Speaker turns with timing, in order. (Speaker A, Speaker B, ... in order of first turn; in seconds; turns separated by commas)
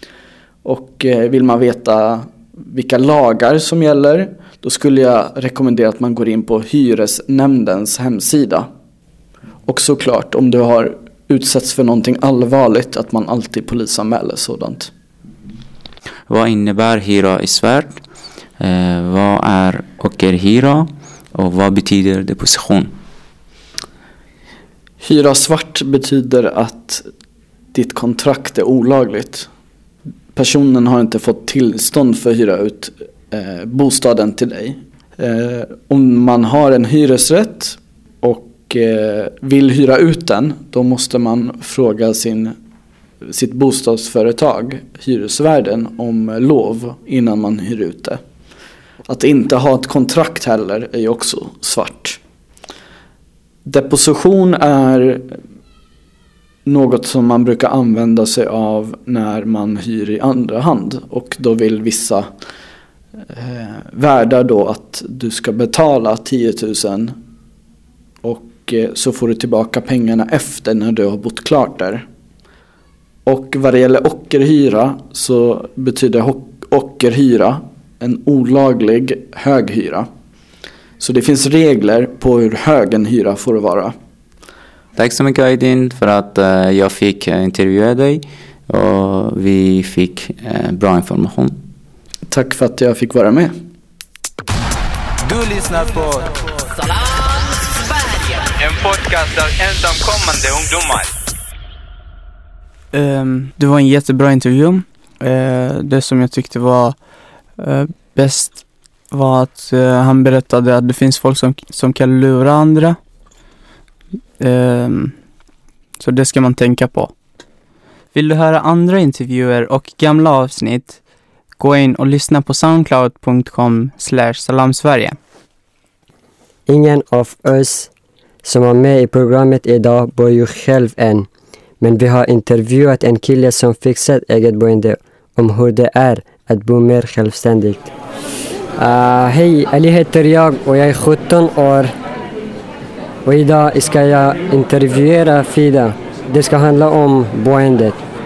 Speaker A: 0.6-8.7, Speaker A: 9.7-14.9, Speaker B: 16.3-18.0, Speaker B: 18.6-22.9, Speaker A: 25.0-27.0, Speaker A: 27.7-29.5, Speaker A: 30.3-42.5, Speaker A: 43.3-48.2, Speaker A: 49.1-52.2, Speaker A: 53.6-55.3, Speaker A: 56.6-62.3, Speaker A: 63.3-67.2, Speaker A: 68.2-72.0, Speaker A: 73.2-80.1, Speaker A: 81.0-83.9, Speaker B: 84.9-91.6, Speaker A: 92.3-93.5, Speaker C: 95.2-96.3, Speaker C: 98.6-101.1, Speaker D: 102.9-107.0, Speaker D: 107.6-113.0, Speaker D: 114.4-115.1, Speaker D: 116.0-117.1, Speaker D: 118.1-121.0, Speaker D: 121.6-125.2, Speaker E: 126.7-127.9, Speaker E: 128.4-131.3, Speaker E: 131.8-137.9, Speaker E: 138.8-141.9, Speaker E: 143.2-148.0